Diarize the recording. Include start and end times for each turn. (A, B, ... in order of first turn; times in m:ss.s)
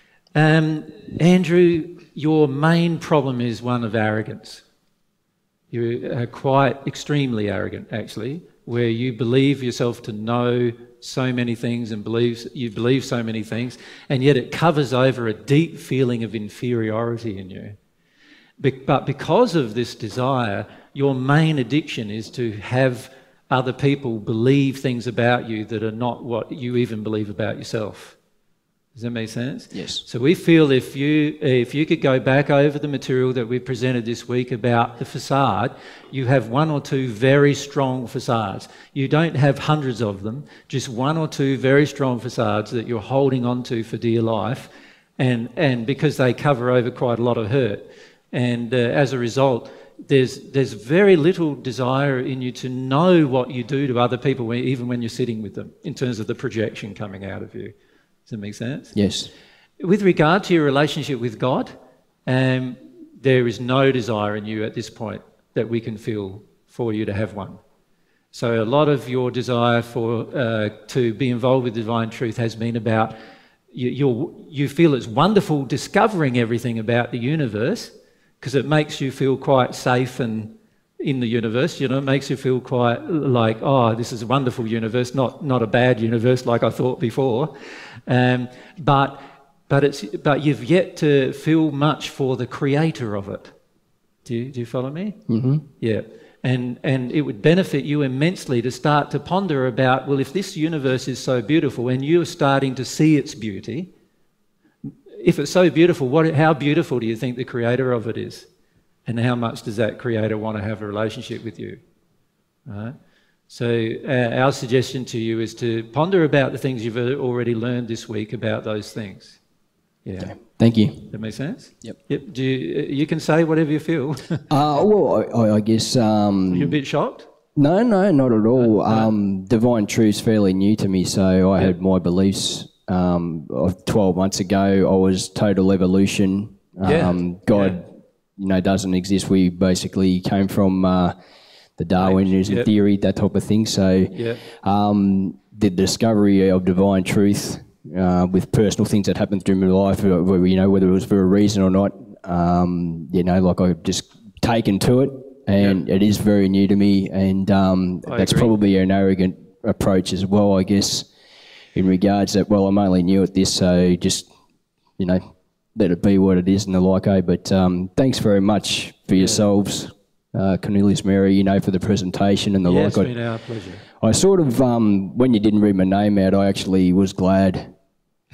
0:00.4-0:04.6 A
0:05.7-0:17.8 A
0:18.6-0:28.2 A
0:29.0-0:57.7 A
0:29.7-0:30.0 B
0:58.3-0:59.0 A
0:58.9-0:59.3 B
0:59.8-1:07.6 A
1:08.3-1:13.2 A
1:13.7-1:27.5 A
1:28.1-1:33.6 A
1:34.2-1:35.2 A
1:35.3-1:35.6 B
1:35.8-1:43.9 A
1:45.2-1:48.5 A
1:49.1-1:51.8 A
1:52.7-1:53.0 A
1:53.5-1:59.4 A
2:00.0-2:04.4 A
2:00.2-2:02.0 B
2:04.5-2:06.8 B
2:06.5-2:07.3 A
2:07.6-2:21.2 B
2:08.6-2:09.1 A
2:16.8-2:17.8 A
2:21.8-2:41.1 B
2:22.0-2:22.7 A
2:24.1-2:24.4 A
2:35.6-2:35.8 A
2:38.0-2:38.5 A
2:41.7-2:44.3 B
2:45.0-2:53.4 B
2:49.1-2:49.5 A
2:52.6-2:53.8 A
2:54.0-2:57.7 B